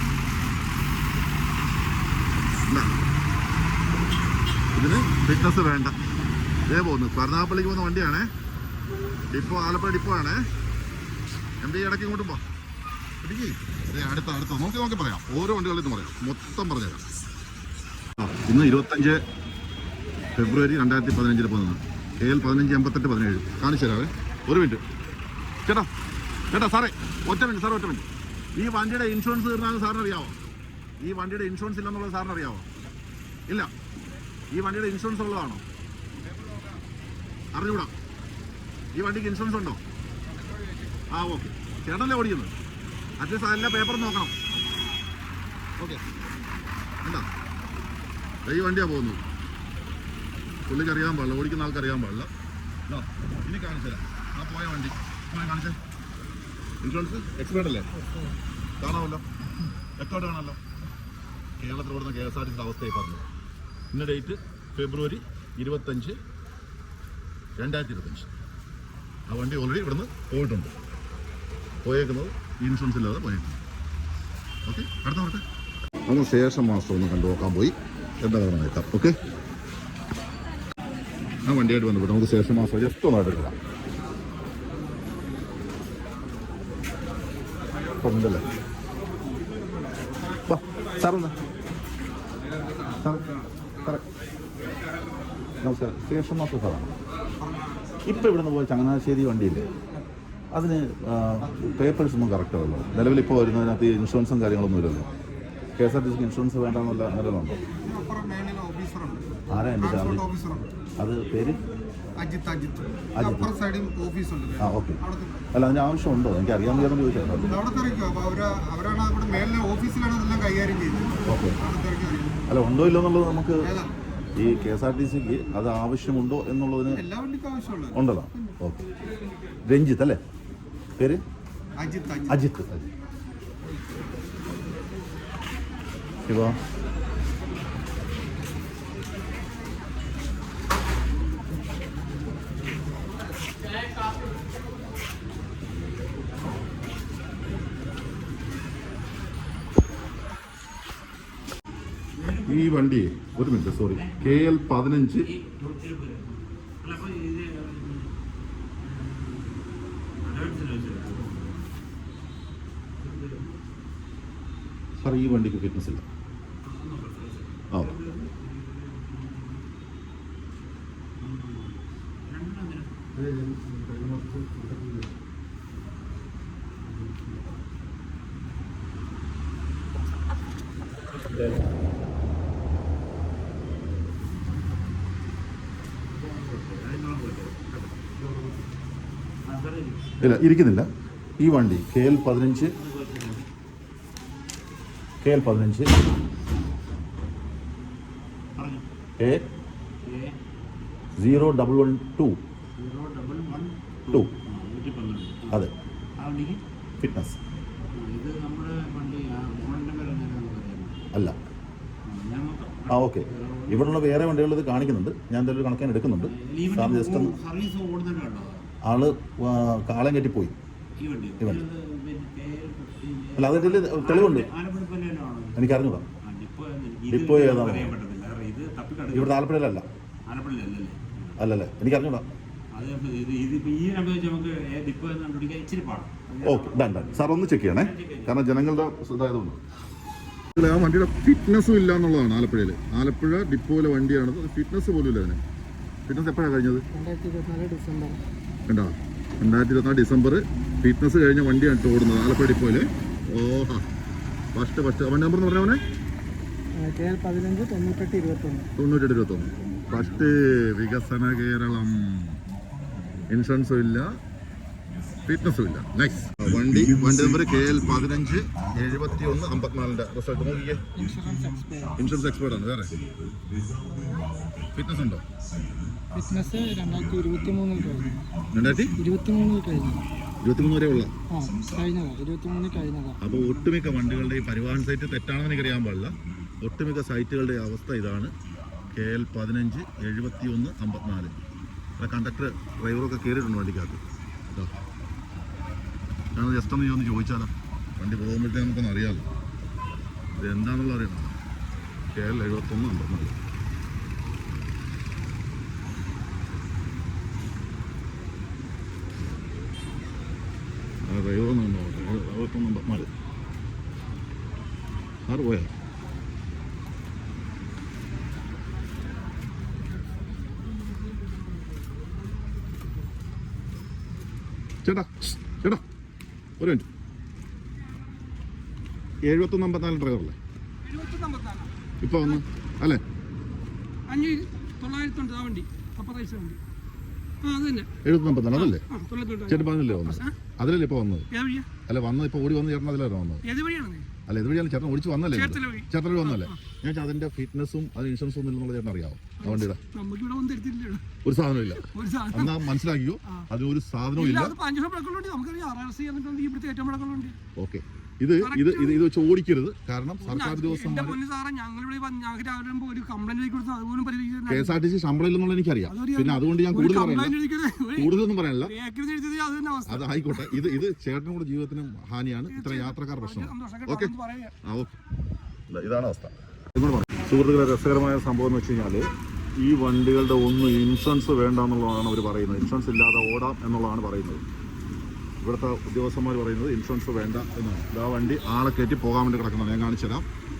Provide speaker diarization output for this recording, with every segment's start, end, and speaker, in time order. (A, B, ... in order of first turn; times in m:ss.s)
0:02.7-0:03.0 A
0:04.7-0:06.0 A
0:06.7-0:08.3 A
0:09.3-0:10.4 A
0:11.6-0:12.4 A
0:13.2-0:17.0 A
0:18.2-0:19.2 A
0:20.3-0:24.8 A
0:26.5-0:30.4 A
0:31.0-0:32.7 A
0:34.5-0:35.6 A
0:37.5-0:37.9 A
0:39.0-0:39.8 A
0:41.1-0:42.5 A
0:43.2-0:44.4 A
0:47.0-0:47.3 A
0:48.4-0:49.2 A
0:50.7-0:52.3 A
0:52.9-0:55.8 A
0:56.8-0:57.9 A
0:58.8-0:59.2 A
1:00.0-1:00.6 A
1:01.6-1:03.3 A
1:03.9-1:06.2 A
1:07.6-1:08.3 A
1:09.3-1:10.7 A
1:11.8-1:13.6 A
1:14.7-1:15.4 A
1:16.1-1:19.2 A
1:21.5-1:23.6 A
1:28.0-1:28.5 A
1:30.5-1:31.4 A
1:33.0-1:33.3 A
1:35.6-1:36.9 A
1:38.1-1:39.7 A
1:40.5-1:45.1 A
1:45.8-1:47.6 A
1:47.8-1:49.3 B
1:49.5-1:50.3 A
1:49.8-1:50.7 B
1:51.0-1:51.6 A
1:52.2-1:55.4 B
1:53.1-1:53.6 A
1:54.6-1:57.6 A
1:57.6-2:02.4 B
2:01.3-2:01.6 A
2:02.5-2:03.7 A
2:04.4-2:07.0 A
2:07.0-2:07.9 B
2:07.9-2:08.9 A
2:09.7-2:10.2 A
2:11.0-2:11.2 A
2:11.8-2:12.3 B
2:12.3-2:12.9 A
2:16.3-2:16.6 A
2:32.2-2:32.7 C
2:32.4-2:35.3 A
2:33.9-2:34.6 C
2:35.2-2:38.1 C
2:38.8-2:39.7 C
2:40.2-2:41.6 C
2:43.0-2:43.6 C
2:45.0-2:46.1 A
2:46.6-2:49.7 C
2:47.7-2:48.0 A
2:51.2-2:53.0 C
2:53.4-2:54.9 B
2:57.0-2:57.4 C
3:06.1-3:08.0 C
3:09.5-3:10.1 C
3:10.2-3:10.9 A
3:11.4-3:12.7 A
3:12.7-3:13.5 C
3:15.2-3:16.0 A
3:18.6-3:18.9 C
3:19.2-3:19.5 A
3:20.0-3:20.4 C
3:21.2-3:22.4 A
3:22.8-3:25.6 C
3:24.1-3:24.3 A
3:26.2-3:26.6 C
3:27.0-3:27.4 A
3:27.9-3:31.0 C
3:32.0-3:34.0 C
3:32.9-3:37.3 A
3:36.2-3:38.7 C
3:38.8-3:40.6 A
3:41.0-3:45.7 C
3:41.4-3:41.6 A
3:43.4-3:44.5 A
3:45.6-3:46.1 A
3:46.2-3:49.4 C
3:47.1-3:47.9 A
3:49.1-3:49.9 A
3:50.3-3:51.4 C
3:51.4-3:52.3 A
3:52.7-3:58.4 C
3:56.4-3:59.6 A
4:00.5-4:05.4 A
4:06.1-4:06.8 A
4:06.9-4:08.2 D
4:08.7-4:13.8 A
4:14.5-4:15.8 A
4:16.8-4:18.7 D
4:18.8-4:22.4 A
4:23.3-4:24.1 A
4:25.3-4:30.9 A
4:31.0-4:32.0 D
4:32.0-4:33.0 A
4:33.8-4:34.3 D
4:34.7-4:35.2 A
4:36.1-4:38.2 D
4:38.5-4:39.0 A
4:39.0-4:40.1 D
4:40.4-4:41.1 A
4:41.3-4:43.2 D
4:43.2-4:48.3 A
4:48.9-4:51.4 A
4:52.0-4:54.7 A
4:56.4-4:59.3 A
5:00.4-5:01.4 A
5:02.1-5:03.4 A
5:11.1-5:13.1 A
5:15.3-5:15.7 A
5:24.8-5:25.8 A
5:26.6-5:26.9 A
5:29.3-5:30.4 A
5:30.8-5:31.7 E
5:32.0-5:33.0 A
5:34.1-5:36.6 E
5:37.4-5:37.9 E
5:38.0-5:38.8 A
5:38.5-5:40.3 E
5:39.5-5:41.3 A
5:41.3-5:41.7 E
5:41.9-5:43.4 A
5:43.4-5:44.1 E
5:44.3-5:49.8 A
5:45.3-5:46.6 E
5:49.4-5:51.0 E
5:51.2-5:54.6 A
5:51.8-5:52.7 E
5:54.2-5:57.4 E
5:57.6-6:01.2 A
5:58.4-5:59.0 E
6:00.2-6:04.8 E
6:04.5-6:07.4 A
6:05.9-6:08.1 E
6:07.9-6:08.8 A
6:08.7-6:10.6 E
6:09.9-6:15.0 A
6:12.5-6:14.5 E
6:15.7-6:24.4 A
6:25.4-6:30.3 A